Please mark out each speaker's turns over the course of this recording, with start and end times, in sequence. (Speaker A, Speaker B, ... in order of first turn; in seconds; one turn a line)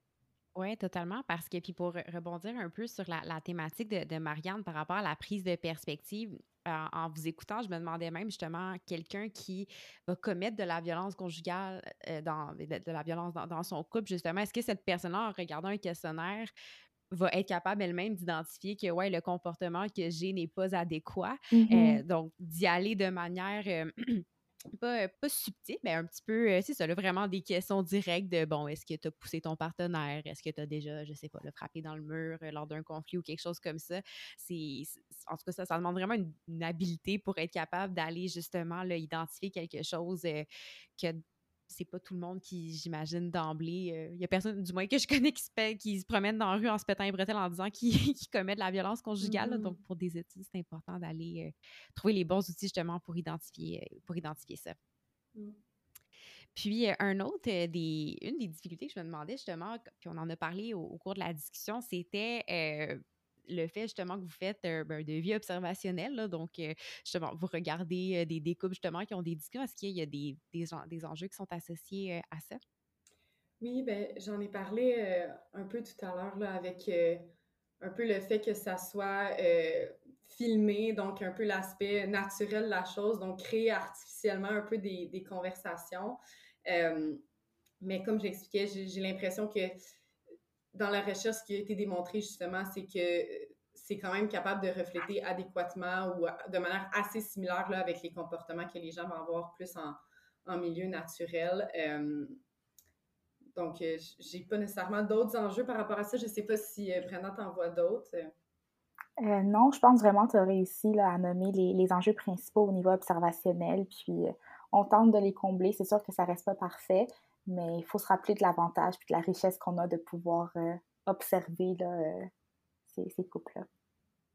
Speaker A: 0.6-16.5
Speaker A: 17.1-24.2
Speaker B: 21.5-22.0
Speaker A: 24.8-40.5
Speaker A: 41.0-54.8
Speaker C: 49.2-49.8
Speaker A: 56.5-72.6
Speaker C: 73.6-77.3
Speaker C: 77.8-87.2
Speaker C: 87.8-89.8
Speaker C: 90.7-102.4
Speaker C: 103.5-108.3
Speaker B: 109.2-122.3
Speaker B: 122.9-123.7